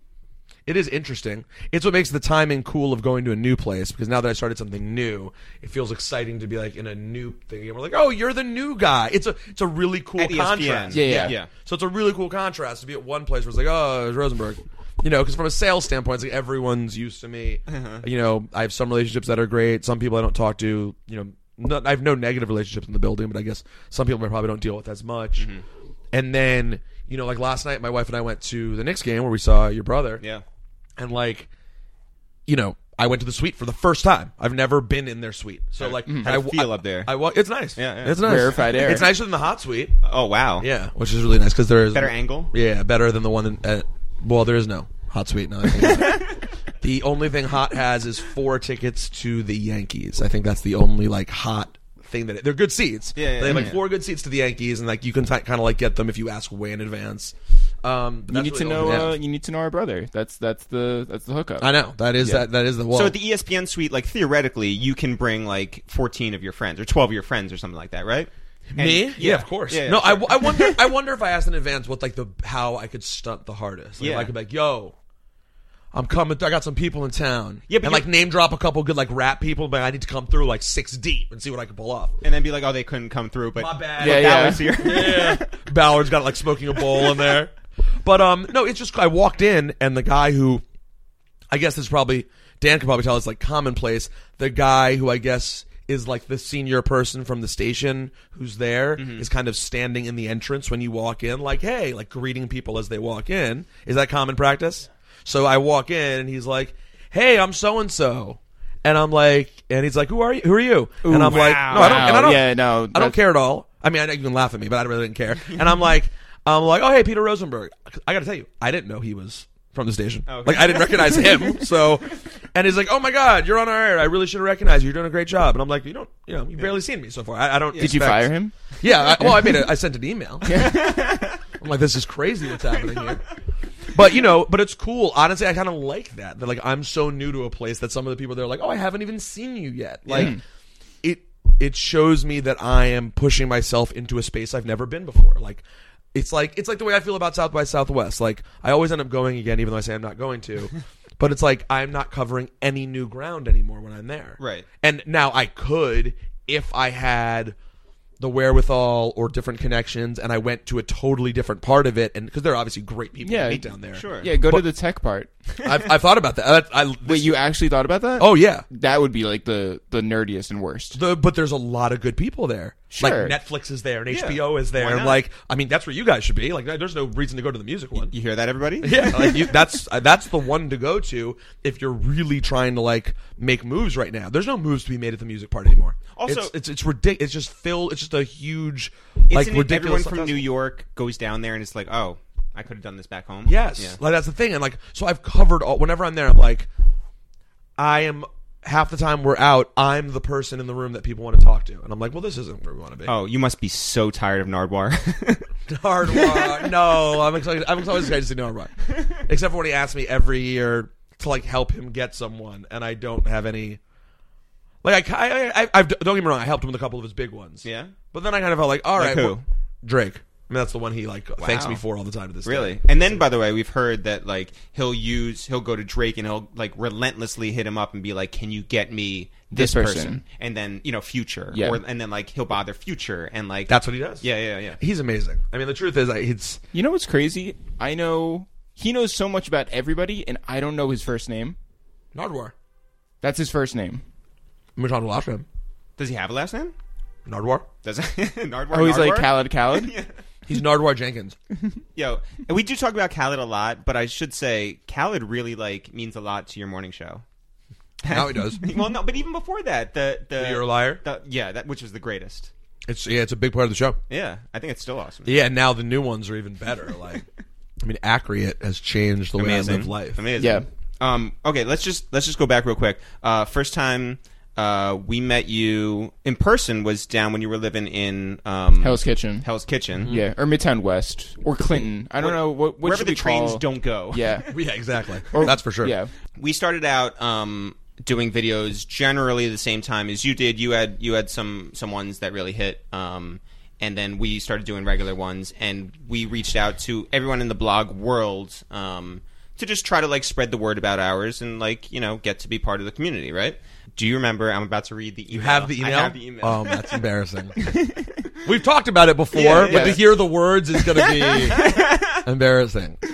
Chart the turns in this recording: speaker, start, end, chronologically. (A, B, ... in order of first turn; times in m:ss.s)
0:00.6-0:25.5 A
0:10.2-0:11.5 B
0:10.9-0:11.4 C
0:17.7-0:18.0 B
0:25.4-0:25.6 B
0:26.1-0:30.2 A
0:31.0-0:31.5 A
0:32.5-0:40.0 A
0:35.8-0:37.1 B
0:37.8-0:39.0 B
0:38.2-0:39.1 C
0:40.0-0:40.7 B
0:40.6-0:59.2 A
0:41.9-0:42.5 B
0:45.8-0:46.4 B
0:53.2-0:53.8 B
0:58.3-1:02.4 C
1:01.6-1:03.1 A
1:02.9-1:10.8 B
1:08.7-1:14.9 A
1:14.0-1:14.3 B
1:15.9-1:22.2 A
1:17.7-1:18.0 B
1:22.2-1:25.5 B
1:23.6-1:30.6 A
1:24.0-1:24.9 C
1:31.5-2:10.9 A
1:39.0-1:39.3 B
1:51.0-1:53.2 C
1:51.2-1:52.3 B
2:00.3-2:01.6 B
2:07.7-2:08.0 B
2:07.8-2:08.5 C
2:09.2-2:09.7 C
2:10.4-2:11.2 C
2:10.5-2:11.4 B
2:11.6-2:13.2 A
2:13.9-2:20.4 A
2:20.0-2:20.4 B
2:20.1-2:20.4 C
2:21.0-2:37.6 A
2:34.4-2:34.6 B
2:38.2-2:44.6 A
2:43.2-2:45.3 C
2:43.9-2:44.3 B
2:45.6-2:47.4 A
2:47.0-2:51.0 C
2:48.2-2:48.6 A
2:50.9-2:58.1 A
2:52.9-2:53.4 C
2:54.1-2:55.2 B
2:58.0-2:59.5 B
2:58.8-3:10.4 A
3:06.1-3:06.5 B
3:09.3-3:14.0 B
3:13.4-3:16.7 A
3:17.8-3:23.1 A
3:23.0-3:25.5 B
3:25.7-3:33.8 A
3:26.1-3:26.6 B
3:28.9-3:29.2 B
3:34.8-3:43.2 A
3:37.6-3:37.9 B
3:39.0-3:39.4 B
3:41.4-3:41.8 B
3:42.4-3:54.8 B
3:49.5-3:50.2 C
3:51.5-3:51.8 C
3:53.7-3:54.2 A
3:54.8-3:56.6 A
3:56.7-4:01.6 C
4:02.1-4:02.5 A
4:03.2-4:04.0 C
4:04.8-4:05.4 A
4:06.0-4:06.7 B
4:07.2-4:07.6 A
4:07.8-4:10.1 B
4:08.7-4:09.9 C
4:10.5-4:11.4 A
4:11.9-4:17.2 B
4:18.0-4:22.5 B
4:18.1-4:18.6 A
4:20.4-4:21.0 A
4:22.9-4:24.0 A
4:24.1-4:25.4 B
4:25.2-4:27.2 A
4:27.8-4:30.2 A
4:29.4-4:40.2 B
4:30.4-4:30.6 C
4:38.8-4:39.5 C
4:40.0-4:44.5 C
4:42.2-4:44.4 B
4:44.5-4:45.9 A
4:45.3-4:46.1 C
4:46.4-5:07.0 B
5:05.3-5:07.6 A
5:08.4-5:13.0 A
5:09.3-5:10.1 B
5:09.5-5:10.1 C
5:10.9-5:12.2 B